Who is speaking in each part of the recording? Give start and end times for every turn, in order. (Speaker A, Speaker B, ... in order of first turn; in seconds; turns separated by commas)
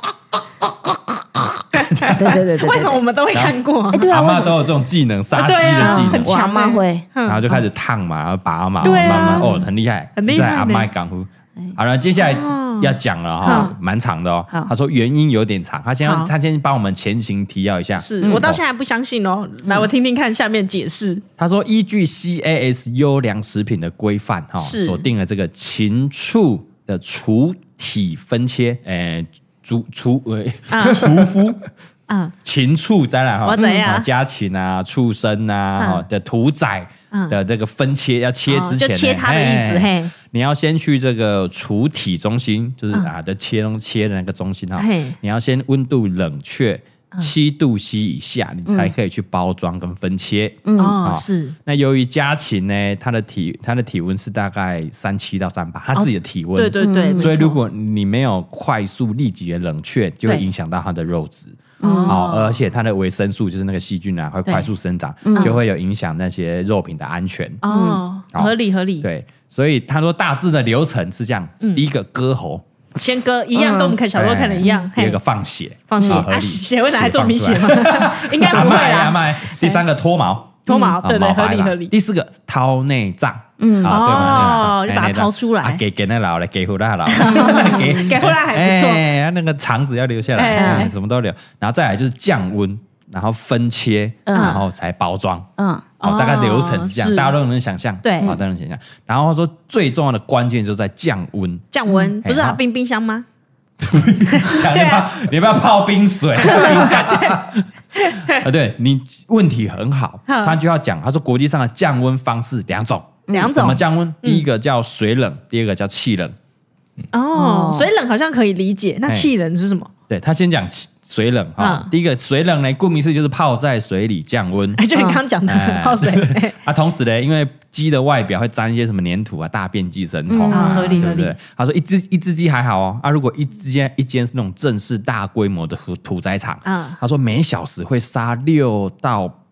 Speaker A: 0.6-2.4, Speaker B: 1.7-4.1, Speaker C: 2.1-3.0, Speaker A: 3.3-6.3, Speaker C: 3.9-4.6, Speaker B: 5.3-7.6, Speaker C: 5.8-7.1, Speaker A: 7.3-18.6, Speaker B: 8.8-9.6, Speaker C: 8.8-9.7, Speaker B: 10.2-10.9, Speaker B: 12.2-13.8, Speaker C: 13.4-13.8, Speaker B: 16.0-16.3, Speaker B: 18.0-21.2, Speaker C: 18.2-18.5, Speaker A: 21.4-31.6, Speaker B: 24.6-25.1, Speaker B: 30.7-31.3, Speaker B: 32.1-32.3, Speaker A: 32.4-61.6, Speaker B: 33.5-34.1, Speaker B: 35.8-36.0, Speaker B: 37.1-37.4, Speaker B: 38.5-40.1, Speaker B: 44.8-45.2, Speaker C: 48.7-48.9, Speaker C: 50.6-51.0, Speaker B: 50.8-51.5, Speaker B: 55.9-57.6, Speaker C: 56.8-57.3, Speaker C: 61.8-62.2, Speaker B: 61.8-62.6, Speaker A: 62.1-67.6, Speaker C: 65.2-65.6, Speaker B: 67.6-69.1, Speaker C: 67.7-68.0, Speaker A: 68.3-72.6, Speaker B: 71.6-71.9, Speaker B: 73.0-75.2, Speaker C: 73.6-74.0, Speaker A: 74.1-95.5, Speaker B: 75.9-79.8, Speaker C: 76.0-76.3, Speaker B: 80.7-81.9, Speaker C: 83.6-84.6, Speaker B: 83.9-85.8, Speaker B: 87.1-89.0, Speaker C: 87.2-88.1, Speaker B: 90.4-90.9, Speaker C: 90.6-90.9, Speaker C: 94.3-94.6, Speaker B: 94.4-94.6, Speaker C: 95.6-95.9, Speaker B: 96.0-97.4, Speaker A: 96.0-101.6, Speaker B: 98.0-98.4, Speaker B: 101.7-103.3, Speaker A: 102.2-102.6, Speaker A: 103.8-116.3, Speaker B: 104.3-105.1, Speaker B: 106.4-107.4, Speaker B: 108.0-108.4, Speaker B: 110.3-110.6, Speaker C: 113.3-113.5, Speaker B: 113.3-114.5, Speaker B: 117.1-119.9, Speaker C: 117.3-117.9, Speaker A: 120.1-124.8, Speaker B: 121.6-121.9, Speaker B: 124.8-126.5, Speaker C: 125.0-125.2, Speaker A: 125.5-139.3, Speaker C: 130.3-131.1, Speaker B: 130.5-131.3, Speaker B: 136.7-137.0